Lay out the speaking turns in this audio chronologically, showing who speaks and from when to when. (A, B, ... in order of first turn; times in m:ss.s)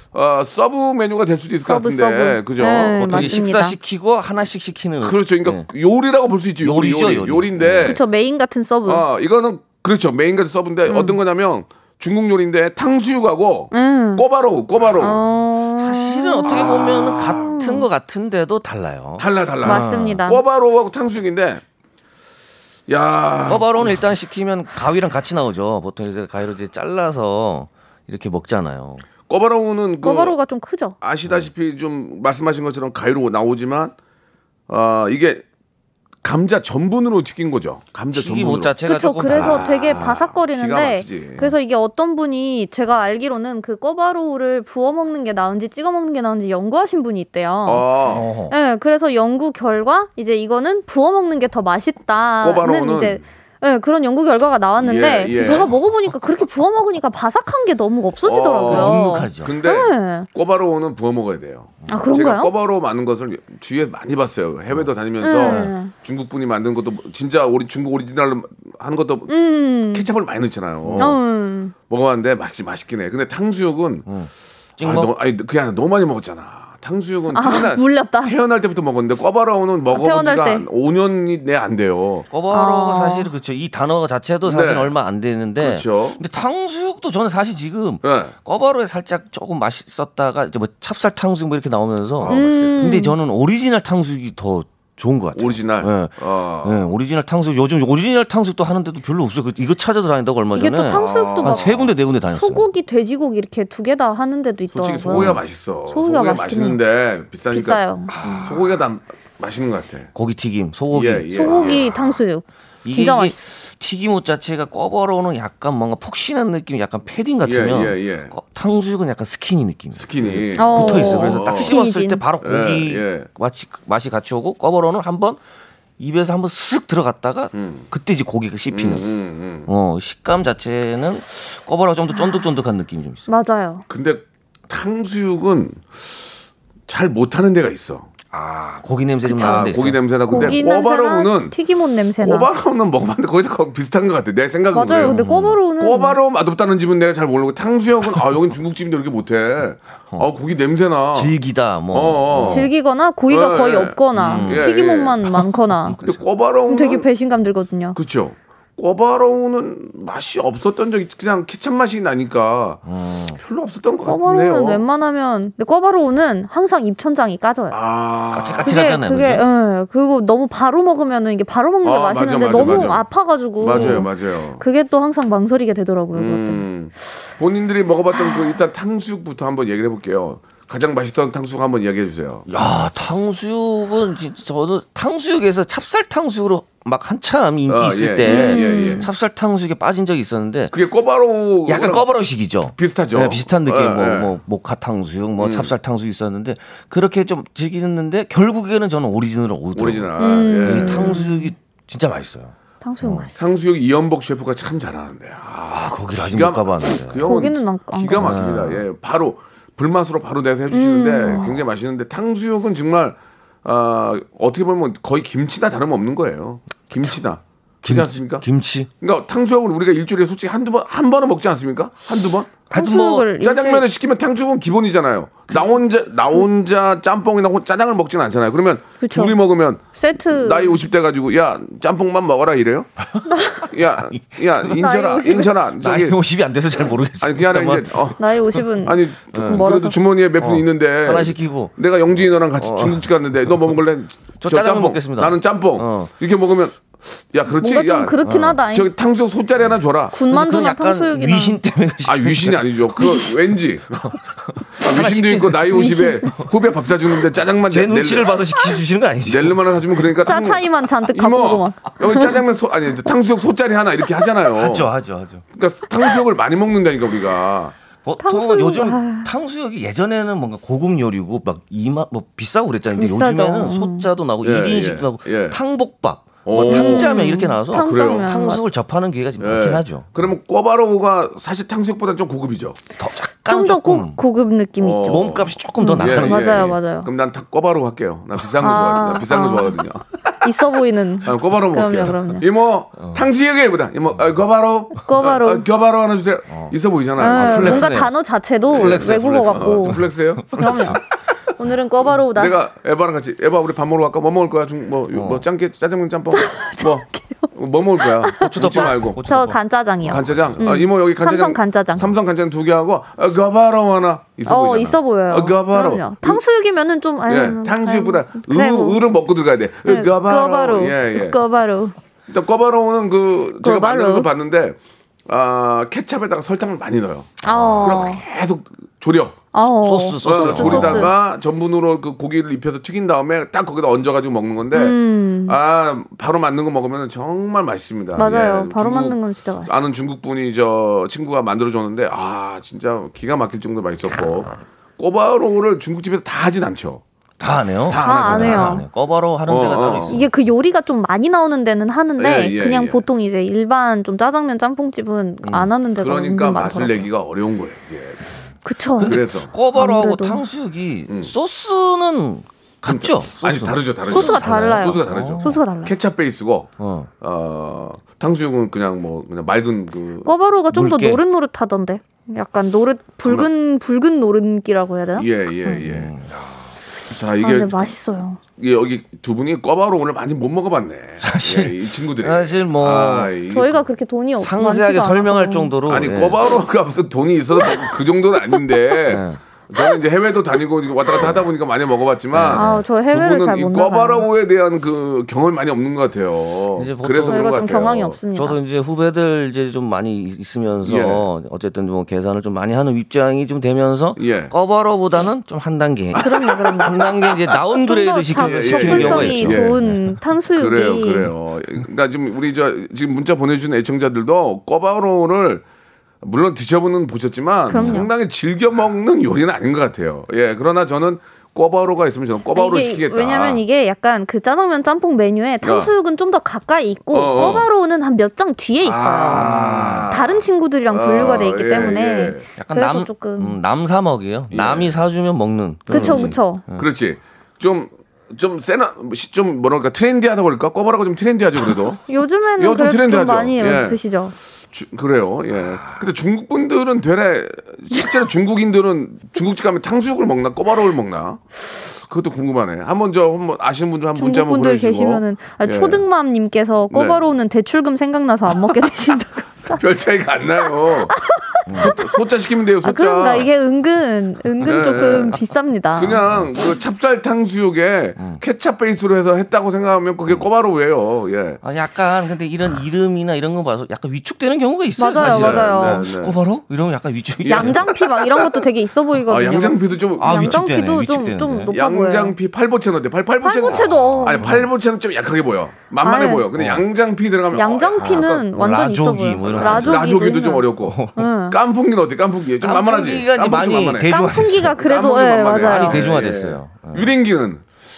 0:00.1-0:03.3 A
0:01.7-0:03.8 B
0:03.0-0:05.7 C
0:05.0-0:08.0 A
0:06.6-0:07.9 C
0:07.8-0:09.0 B
0:08.9-0:15.2 A
0:10.9-0:11.2 B
0:13.7-0:14.2 B
0:15.0-0:17.8 B
0:15.8-0:20.2 C
0:16.4-0:17.5 A
0:19.2-0:21.6 A
0:19.6-0:20.4 B
0:22.9-0:24.0 A
0:23.5-0:29.1 C
0:29.3-0:30.4 A
0:30.0-0:31.0 B
0:31.0-0:34.0 A
0:34.7-0:35.4 A
0:36.2-0:38.7 A
0:38.1-0:39.7 C
0:38.9-0:47.9 B
0:39.3-0:41.5 A
0:47.6-0:48.3 A
0:48.1-0:48.5 C
0:48.5-1:00.3 B
0:52.4-0:53.2 A
0:54.8-0:55.7 A
0:55.4-0:55.7 C
0:58.2-1:09.4 A
0:58.7-0:59.5 C
1:01.9-1:02.5 B
1:05.2-1:05.9 B
1:05.4-1:05.7 C
1:09.3-1:10.1 B
1:09.9-1:11.2 A
1:10.8-1:11.2 C
1:11.0-1:11.7 B
1:11.9-1:14.1 A
1:14.1-1:15.1 C
1:14.8-1:22.3 A
1:17.3-1:18.4 B
1:19.9-1:20.7 B
1:22.3-1:42.7 C
1:22.5-1:23.3 B
1:24.5-1:24.9 A
1:25.6-1:26.2 A
1:28.0-1:28.3 A
1:32.2-1:32.8 A
1:32.3-1:33.2 B
1:35.4-1:36.9 A
1:40.6-1:41.7 B
1:40.9-1:41.9 A
1:42.3-1:45.3 B
1:44.7-1:47.8 A
1:45.9-1:46.8 B
1:47.5-1:48.4 B
1:48.1-1:48.7 C
1:48.3-1:50.1 A
1:50.2-1:52.1 C
1:50.9-1:51.9 A
1:51.3-1:53.4 B
1:52.8-2:05.4 C
1:57.4-1:58.3 A
1:59.9-2:01.8 A
2:00.6-2:02.2 B
2:02.4-2:03.3 A
2:06.0-2:09.0 C
2:07.5-2:07.9 A
2:08.7-2:09.7 A
2:09.7-2:13.2 C
2:13.3-2:13.8 B
2:13.9-2:15.9 A
2:16.9-2:18.1 A
2:18.3-2:20.6 C
2:19.3-2:21.6 A
2:19.3-2:19.7 B
2:20.3-2:22.5 B
2:22.2-2:25.2 A
2:24.7-2:26.2 B
2:25.0-2:25.6 C
2:25.8-2:31.4 A
2:31.1-2:32.7 C
2:31.9-2:32.7 A
2:32.4-2:36.0 B
2:33.3-2:35.2 A
2:34.2-2:34.7 C
2:35.3-2:36.2 C
2:36.0-2:37.1 A
2:36.7-2:38.0 B
2:38.0-2:42.8 A
2:42.9-2:43.4 C
2:43.4-2:44.8 A
2:44.0-2:47.8 B
2:47.7-2:48.8 A
2:48.3-2:49.4 C
2:48.6-2:56.6 B
2:51.8-2:53.0 A
2:53.6-2:54.6 A
2:53.7-2:54.0 C
2:56.1-3:02.5 A
3:02.5-3:10.8 C
3:07.7-3:09.1 A
3:08.3-3:09.0 B
3:10.7-3:12.1 A
3:11.7-3:20.1 C
3:12.7-3:14.4 A
3:15.4-3:15.7 A
3:19.8-3:21.2 A
3:20.2-3:21.5 B
3:20.6-3:23.3 C
3:22.8-3:23.4 B
3:23.4-3:38.4 A
3:25.7-3:27.3 C
3:27.2-3:28.4 B
3:28.2-3:28.8 C
3:30.7-3:31.6 B
3:37.8-3:38.9 C
3:39.0-3:42.6 A
3:42.7-3:43.3 C
3:42.7-3:43.8 B
3:43.4-3:52.9 A
3:49.0-3:49.4 B
3:49.9-3:50.8 B
3:53.1-3:54.8 C
3:53.3-3:53.6 B
3:53.6-3:56.2 A
3:54.7-3:55.5 B
3:55.8-3:58.6 C
3:57.2-3:58.2 A
3:58.2-4:00.0 B
3:58.8-4:10.2 A
3:59.3-3:59.7 C
4:00.4-4:01.8 C
4:02.6-4:03.5 C
4:04.4-4:06.1 C
4:07.6-4:08.9 B
4:08.2-4:08.6 C
4:10.1-4:11.6 B
4:10.3-4:13.3 C
4:12.0-4:14.2 A
4:14.0-4:16.5 C
4:14.8-4:18.4 A
4:15.7-4:16.3 B
4:17.7-4:19.6 C
4:19.2-4:24.9 A
4:20.2-4:22.3 B
4:24.6-4:25.4 C
4:25.5-4:27.8 A
4:28.0-4:40.1 C
4:28.2-4:29.3 B
4:33.0-4:34.1 B
4:34.4-4:35.6 A
4:36.5-4:38.3 A
4:36.6-4:38.6 B
4:39.4-4:42.8 A
4:43.0-4:44.2 C
4:43.5-4:47.1 B
4:44.8-4:50.4 A
4:45.1-4:46.7 C
4:48.6-4:49.8 B
4:50.4-4:52.4 B
4:51.2-4:57.9 A
4:53.0-4:53.3 C
4:55.0-4:55.7 B
4:56.5-4:58.1 C
4:57.2-5:00.0 B
4:58.7-5:01.0 C
4:58.7-5:01.0 A
5:00.5-5:01.0 B
5:01.6-5:02.6 B
5:02.2-5:09.2 A
5:05.1-5:05.4 C
5:06.3-5:12.1 B
5:08.4-5:10.6 C
5:10.1-5:16.4 A
5:14.5-5:19.0 B
5:17.3-5:21.4 A
5:19.9-5:22.0 B
5:22.3-5:29.4 A
5:23.6-5:24.3 B
5:27.4-5:28.2 B
5:27.5-5:28.1 C
5:29.5-5:31.1 B
5:29.7-5:31.1 C
5:30.2-5:47.0 A
5:34.7-5:35.6 B
5:38.2-5:39.8 B
5:47.4-5:50.3 C
5:47.9-5:48.8 A
5:48.0-5:48.8 B
5:49.5-5:50.2 A
5:50.1-5:57.1 B
5:52.2-5:53.0 A
5:55.4-5:55.7 C
5:56.0-5:58.2 A
5:58.6-5:59.2 B
5:59.0-6:05.6 C
5:59.0-5:59.5 A
5:59.7-6:00.4 B
6:01.1-6:01.3 A
6:02.8-6:10.3 A
6:04.1-6:05.9 B
6:06.8-6:07.1 C
6:10.3-6:15.8 B
6:10.7-6:11.2 C
6:15.2-6:16.1 A
6:15.8-6:16.7 C
6:17.1-6:17.9 A
6:17.4-6:18.4 B
6:18.6-6:23.8 A
6:21.2-6:23.3 C
6:23.5-6:25.7 B
6:24.4-6:26.4 C
6:25.9-6:38.2 A
6:28.5-6:28.8 B
6:29.1-6:29.4 C
6:32.3-6:32.8 C
6:32.5-6:34.3 B
6:36.8-6:37.7 C
6:37.3-6:38.6 B
6:38.3-6:50.2 C
6:40.8-6:41.3 A
6:44.2-6:44.5 A
6:46.2-6:46.9 A
6:46.2-6:47.0 B
6:47.8-6:51.3 B
6:48.3-6:49.8 A
6:50.5-6:55.6 A
6:56.2-7:03.6 A
6:57.7-6:58.1 B
6:57.7-6:58.0 C
7:02.5-7:09.5 B
7:05.6-7:05.9 A
7:07.1-7:07.7 A
7:08.8-7:12.5 A
7:09.3-7:10.1 C
7:10.1-7:13.6 B
7:12.6-7:16.9 C
7:14.5-7:15.0 A
7:15.9-7:16.6 B
7:15.9-7:22.0 A
7:22.1-7:24.4 B
7:22.6-7:24.0 A
7:24.7-7:36.0 A
7:25.6-7:26.0 C
7:34.2-7:39.8 B
7:36.9-7:37.2 A
7:39.7-7:41.2 A
7:40.9-7:41.9 B
7:41.7-7:41.9 C
7:41.7-7:43.5 A
7:42.8-7:46.2 B
7:44.6-7:45.4 A
7:45.0-7:45.4 C
7:46.0-7:51.6 A
7:46.2-7:46.5 C
7:51.6-7:57.9 C
7:55.0-7:56.0 B
7:55.2-7:56.4 A
7:57.4-7:58.6 A
7:57.5-8:02.4 B
7:59.3-8:00.6 A
8:00.2-8:01.7 C
8:01.7-8:08.5 A
8:03.4-8:04.5 B
8:03.7-8:04.7 C
8:06.0-8:06.5 B
8:06.5-8:06.8 C
8:07.5-8:11.6 B
8:08.0-8:10.2 C
8:09.5-8:17.6 A
8:10.8-8:11.3 C
8:12.6-8:14.8 C
8:14.1-8:16.0 B
8:15.6-8:17.1 C